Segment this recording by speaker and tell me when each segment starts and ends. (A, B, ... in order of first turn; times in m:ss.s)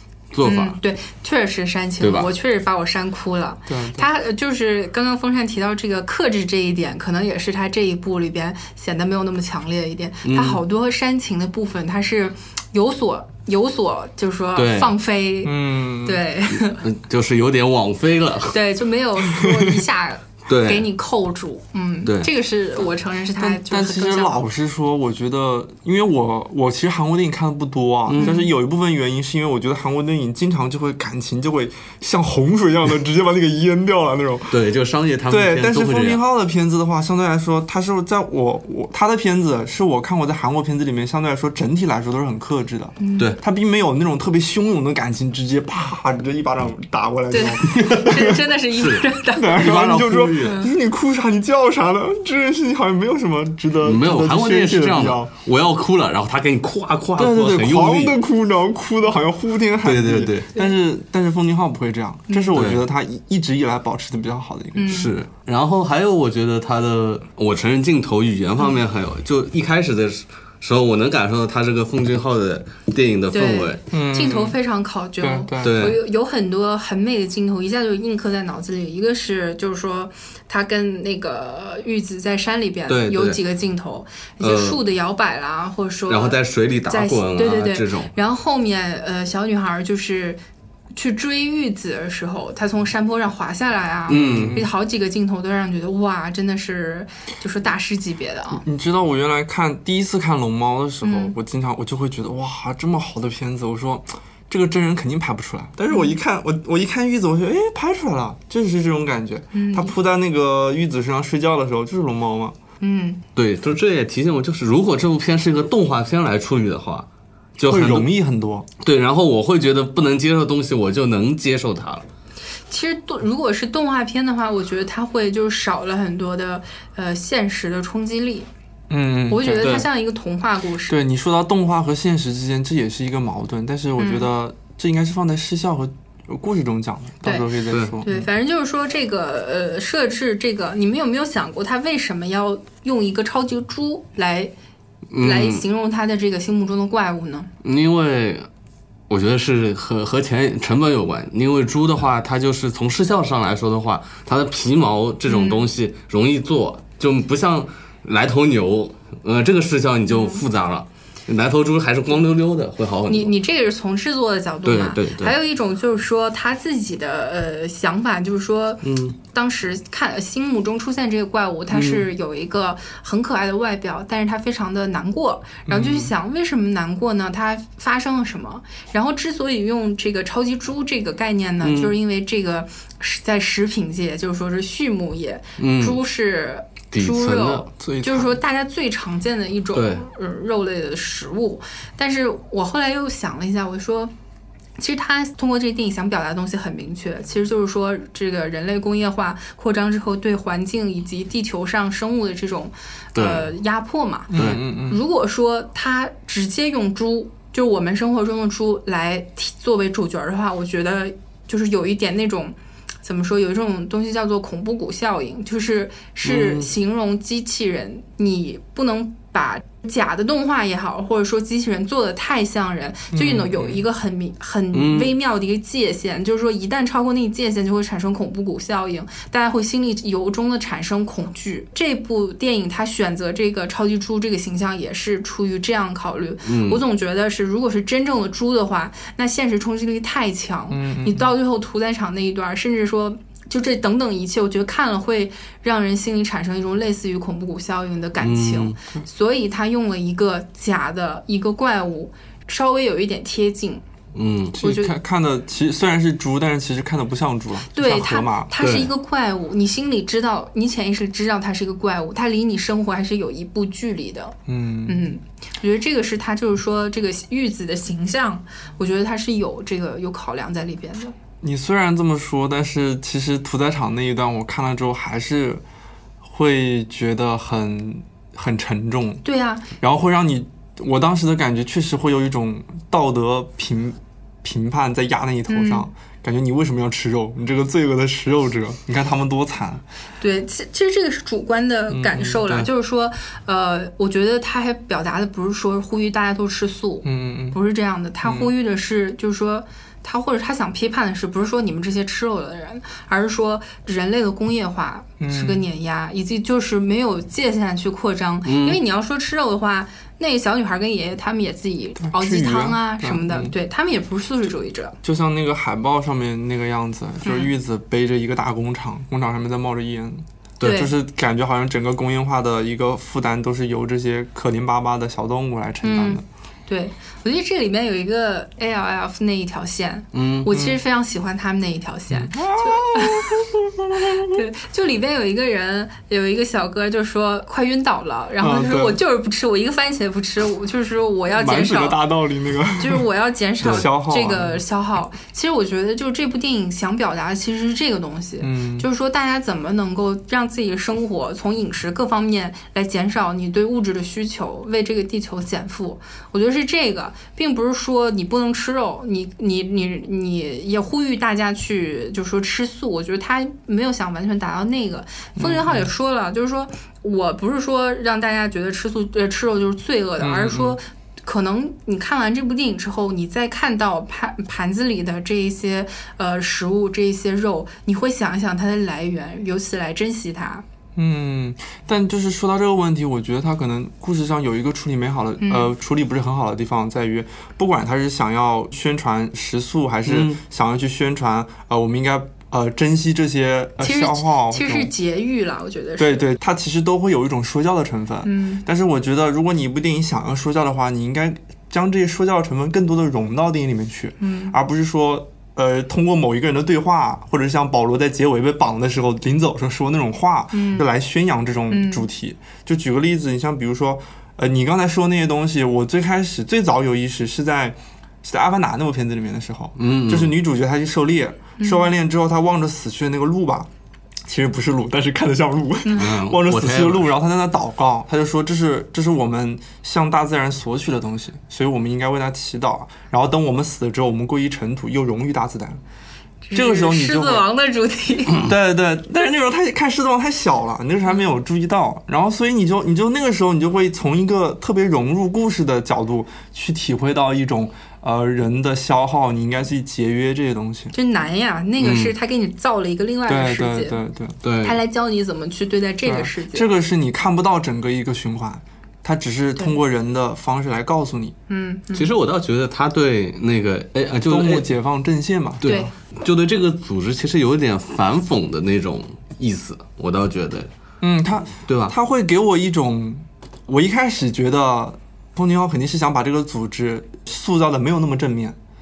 0:00.3-0:00.8 A
0:00.4-0:16.8 B
0:02.0-0:02.3 A
0:03.7-0:04.1 C
0:10.2-0:10.6 A
0:14.6-0:14.9 A
0:15.4-0:16.2 C
0:16.7-0:18.6 A
0:18.5-0:24.4 B
0:19.3-0:19.7 C
0:20.5-0:20.9 A
0:22.0-0:22.3 A
0:23.4-0:34.6 C
0:28.1-0:28.4 A
0:28.2-0:28.5 B
0:34.5-0:36.2 A
0:35.3-0:48.4 C
0:43.0-0:43.3 B
0:47.3-0:49.7 B
0:47.7-0:48.2 A
0:48.7-0:50.6 A
0:49.4-0:55.3 C
0:50.4-0:50.7 B
0:53.8-0:58.2 A
0:57.2-1:05.0 C
0:59.8-1:00.5 A
1:02.5-1:02.8 A
1:04.8-1:05.1 B
1:04.9-1:13.8 A
1:13.3-1:30.4 B
1:13.9-1:14.6 C
1:15.2-1:15.8 C
1:15.6-1:16.0 A
1:22.9-1:23.4 A
1:24.4-1:24.8 A
1:26.1-1:28.1 A
1:30.9-1:38.6 B
1:34.1-1:34.6 A
1:34.1-1:34.7 C
1:38.6-1:52.6 C
1:41.0-1:41.3 B
1:45.9-1:46.1 B
1:49.5-1:49.9 B
1:52.8-1:53.2 B
1:53.4-1:57.1 A
1:57.6-1:58.1 A
1:57.6-1:58.7 C
1:58.8-2:02.0 A
2:02.7-2:08.5 B
2:08.9-2:09.8 C
2:09.3-2:10.9 B
2:09.6-2:09.9 A
2:10.9-2:18.3 C
2:14.0-2:14.3 B
2:17.2-2:24.5 B
2:17.7-2:18.0 A
2:25.1-2:25.6 A
2:25.2-2:27.5 B
2:27.6-2:28.5 A
2:29.1-2:43.3 A
2:35.3-2:35.7 B
2:40.1-2:40.4 B
2:43.1-3:14.1 B
2:44.6-2:45.3 A
2:48.8-2:49.2 A
2:51.7-2:52.0 A
2:55.7-2:56.1 C
3:01.6-3:02.0 A
3:05.6-3:06.0 A
3:06.9-3:07.7 A
3:07.8-3:08.4 C
3:09.7-3:10.0 A
3:14.8-4:13.8 B
3:23.1-3:23.5 A
3:24.3-3:25.0 C
3:24.3-3:24.6 A
3:36.2-3:36.7 A
3:43.1-3:43.8 C
3:44.7-3:45.1 A
3:56.4-3:56.8 A
4:00.7-4:01.3 C
4:08.2-4:08.8 A
4:14.1-4:14.6 A
4:14.6-4:18.5 C
4:14.6-4:14.9 B
4:17.7-4:31.1 B
4:18.6-4:18.9 A
4:24.5-4:25.1 C
4:31.4-4:35.6 C
4:36.2-4:39.2 C
4:39.2-4:39.7 B
4:39.8-4:49.8 C
4:45.5-4:45.9 B
4:50.2-5:15.0 B
4:51.9-4:52.4 C
4:57.0-4:57.6 C
4:58.2-4:58.5 C
5:05.2-5:05.6 C
5:08.4-5:08.8 A
5:12.0-5:13.5 C
5:15.0-5:26.2 C
5:17.2-5:17.5 B
5:20.6-5:20.9 A
5:20.6-5:20.9 B
5:25.8-5:33.5 B
5:30.1-5:30.5 A
5:30.5-5:30.8 C
5:32.1-5:34.4 C
5:34.0-5:42.0 B
5:38.4-5:39.0 C
5:41.3-5:43.0 C
5:42.8-6:20.6 B
5:43.6-5:44.6 C
5:48.4-5:48.9 C
6:05.4-6:05.9 C
6:10.2-6:10.8 C
6:21.0-6:34.9 C
6:25.4-6:25.7 B
6:30.0-6:30.4 A
6:33.8-6:36.2 B
6:36.0-7:03.7 C
6:38.2-6:38.6 B
6:44.2-6:44.5 B
6:50.5-6:50.8 B
6:51.7-6:52.0 B
6:59.8-7:00.3 A
7:01.6-7:01.9 B
7:04.2-7:15.8 C
7:05.8-7:06.1 B
7:05.9-7:07.1 A
7:16.4-7:18.5 B
7:16.5-7:17.5 C
7:18.4-7:30.9 C
7:30.9-7:34.0 B
7:31.8-7:32.1 A
7:33.3-7:34.4 C
7:34.4-7:34.8 A
7:34.6-7:36.7 B
7:36.0-7:41.3 C
7:41.5-7:42.1 B
7:41.9-7:44.7 A
7:44.3-7:45.9 C
7:45.6-7:50.7 A
7:45.6-7:45.9 B
7:51.0-7:58.6 C
7:51.6-7:51.9 A